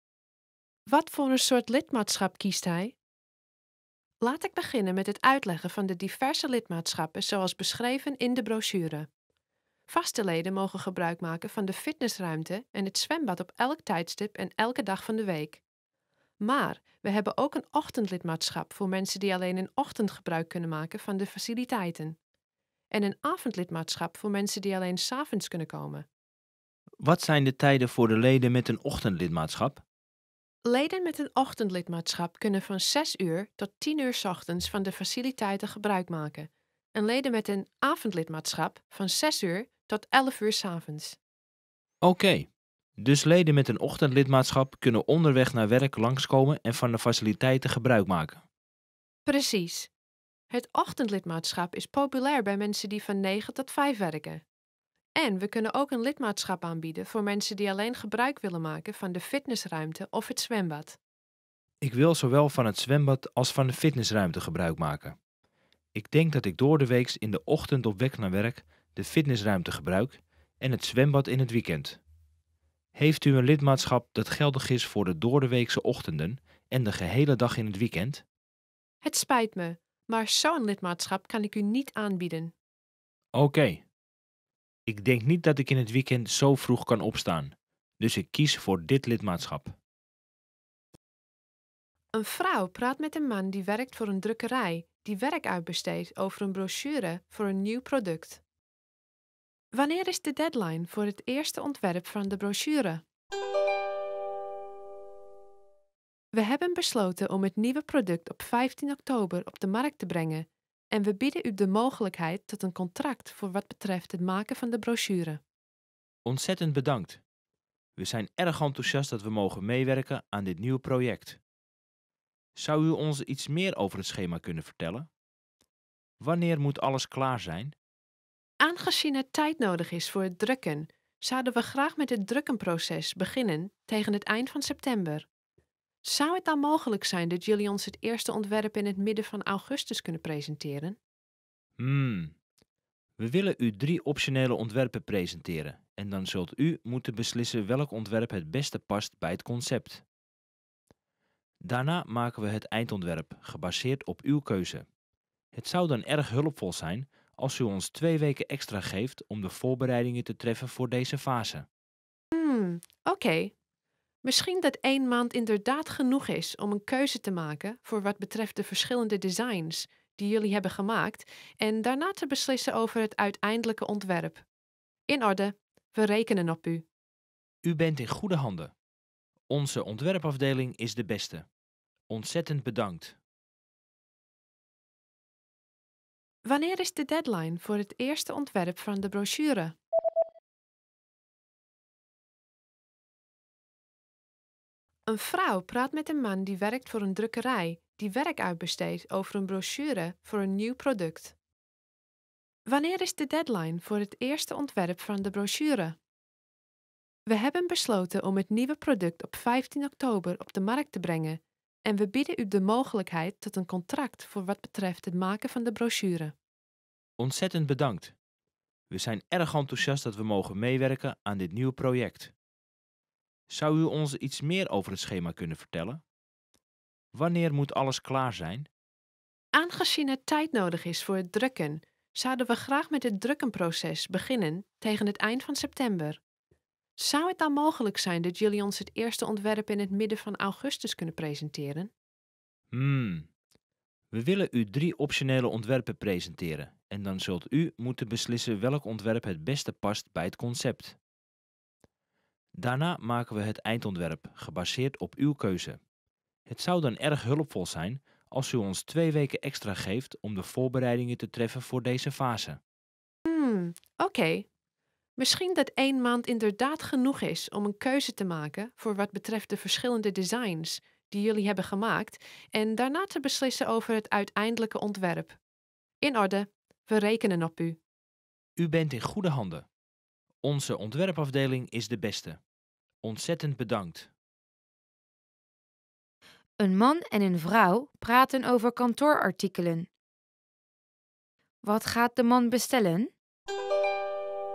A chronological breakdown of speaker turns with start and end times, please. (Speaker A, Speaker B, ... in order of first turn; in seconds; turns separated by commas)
Speaker A: 0.9-3.0, Speaker A: 4.2-9.1, Speaker A: 9.9-15.6, Speaker A: 16.4-22.2, Speaker A: 22.9-26.1, Speaker B: 27.0-29.8, Speaker A: 30.6-41.2, Speaker B: 42.0-42.5, Speaker B: 43.0-48.4, Speaker A: 49.3-49.9, Speaker A: 50.5-54.4, Speaker A: 55.2-61.0, Speaker B: 61.8-65.2, Speaker B: 66.0-72.0, Speaker B: 73.0-78.2, Speaker A: 79.0-82.5, Speaker B: 83.3-83.8, Speaker B: 84.9-89.8, Speaker A: 92.1-98.4, Speaker A: 99.7-103.0, Speaker A: 106.3-115.4, Speaker B: 116.2-117.2, Speaker B: 118.0-121.4, Speaker B: 122.6-125.1, Speaker B: 126.2-127.8, Speaker A: 128.6-135.3, Speaker A: 136.0-141.0, Speaker B: 141.8-142.3, Speaker B: 143.2-150.0, Speaker B: 151.6-154.8, Speaker B: 155.5-161.7, Speaker A: 162.3-163.5, Speaker A: 164.2-174.4, Speaker A: 175.1-176.8, Speaker B: 177.6-178.7, Speaker B: 179.5-181.4, Speaker B: 182.1-183.2, Speaker A: 186.4-189.8, Speaker A: 195.1-201.3, Speaker A: 202.7-206.0, Speaker A: 207.3-216.3, Speaker B: 217.2-218.1, Speaker B: 218.9-222.3, Speaker B: 223.5-226.0, Speaker B: 227.1-228.7, Speaker A: 229.5-236.2, Speaker A: 237.0-241.9, Speaker B: 242.7-243.3, Speaker B: 244.1-251.0, Speaker B: 252.6-255.8, Speaker B: 256.5-262.6, Speaker A: 263.3-264.5, Speaker A: 265.2-275.4, Speaker A: 276.0-277.8, Speaker B: 278.6-279.7, Speaker B: 280.4-282.4, Speaker B: 283.0-284.1, Speaker C: 286.6-289.9, Speaker C: 291.6-293.1